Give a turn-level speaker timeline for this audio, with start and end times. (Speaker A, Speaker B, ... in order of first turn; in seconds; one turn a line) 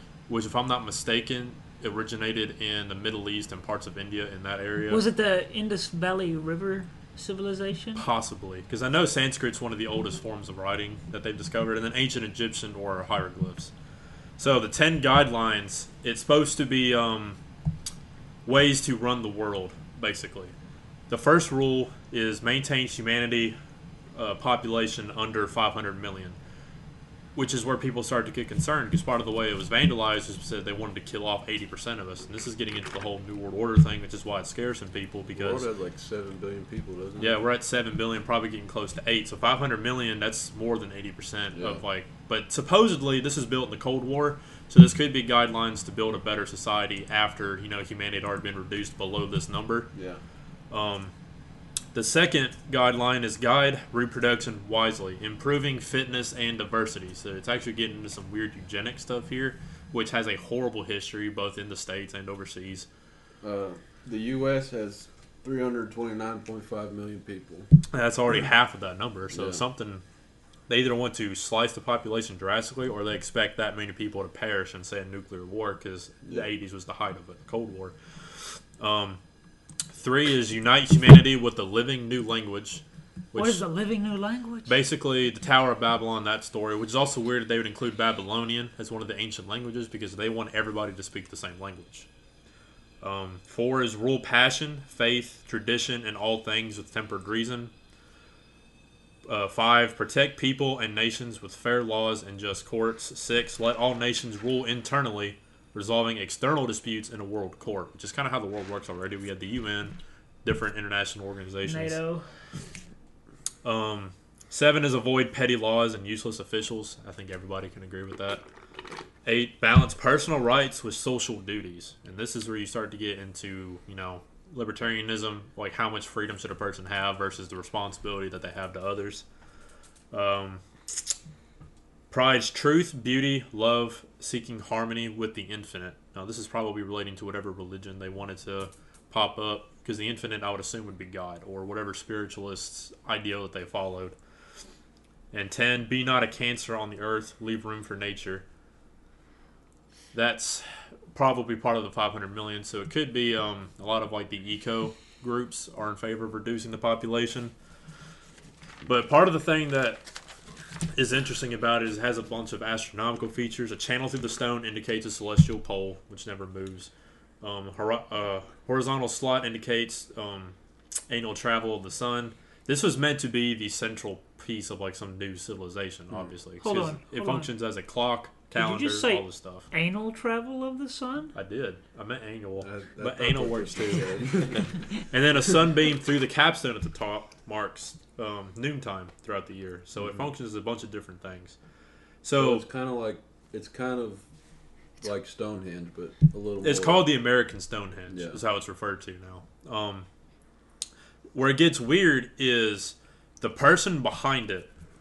Speaker A: 0.3-5.0
Speaker B: 4.9-8.1
Speaker A: 8.0-13.7
Speaker A: 14.4-17.4
Speaker A: 18.4-20.5
Speaker A: 21.1-23.6
Speaker A: 24.1-26.4
Speaker A: 27.3-35.7
Speaker C: 35.3-37.4
Speaker A: 37.2-49.9
Speaker C: 41.5-41.8
Speaker C: 49.9-50.2
Speaker A: 50.7-51.1
Speaker A: 51.9-62.9
Speaker C: 63.4-67.7
Speaker A: 67.9-70.0
Speaker C: 69.3-69.6
Speaker A: 70.7-79.2
Speaker A: 79.9-83.6
Speaker B: 83.3-84.8
Speaker A: 84.7-92.1
Speaker A: 93.0-97.7
Speaker A: 99.2-112.0
Speaker B: 111.6-112.3
Speaker A: 113.6-118.4
Speaker A: 119.2-129.2
Speaker A: 130.1-131.1
Speaker A: 132.1-144.2
Speaker A: 145.3-148.4
Speaker A: 150.1-157.5
Speaker A: 158.8-160.1
Speaker A: 160.9-170.6
Speaker A: 171.1-179.7
Speaker C: 176.1-176.3
Speaker B: 176.6-177.5
Speaker B: 178.5-181.3
Speaker A: 181.3-191.6
Speaker C: 182.6-184.8
Speaker C: 190.0-190.2
Speaker A: 192.2-192.6
Speaker C: 192.3-194.2
Speaker C: 195.0-197.1
Speaker A: 196.6-200.1
Speaker C: 198.1-198.4
Speaker A: 201.3-204.7